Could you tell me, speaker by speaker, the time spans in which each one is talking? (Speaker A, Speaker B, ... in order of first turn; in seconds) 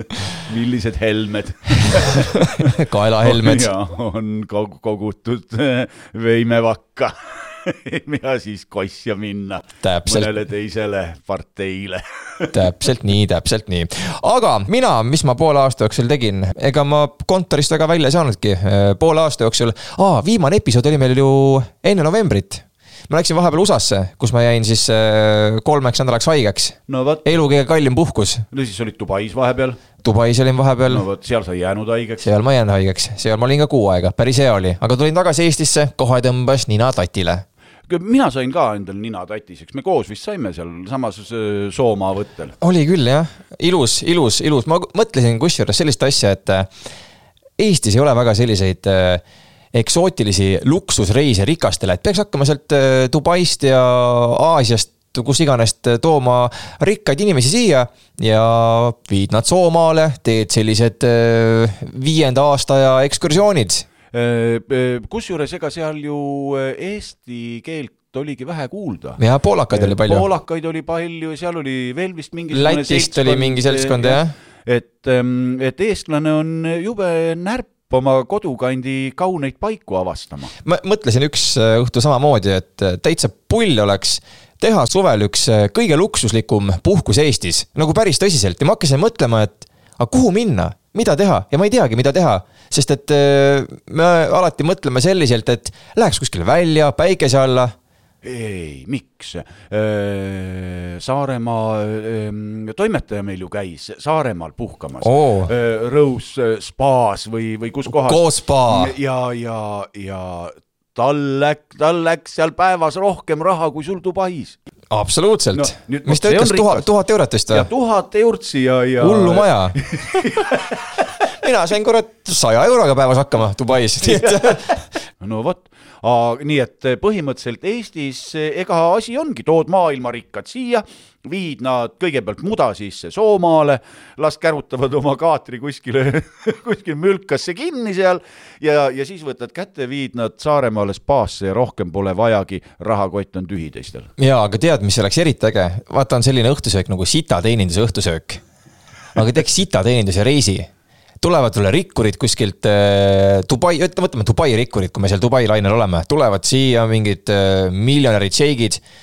Speaker A: 0.4-12.5, 26.9-27.2, 28.5-29.8, 30.9-32.3, 37.9-42.5, 64.1-69.2, 69.7-80.5, 98.2-114.6, 115.5-116.9, 117.5-120.9, 125.2-144.1
Speaker B: 2.1-3.7, 9.8-10.3, 12.5-28.4, 30.0-31.0, 32.2-37.4, 42.6-46.7, 47.6-49.2, 49.7-63.9, 69.2-70.2, 72.5-74.3, 80.6-97.7, 105.0-105.5, 108.0-108.9, 114.9-117.7, 119.0-119.8, 121.4-124.9, 144.2-148.4, 149.1-150.7, 151.2-158.8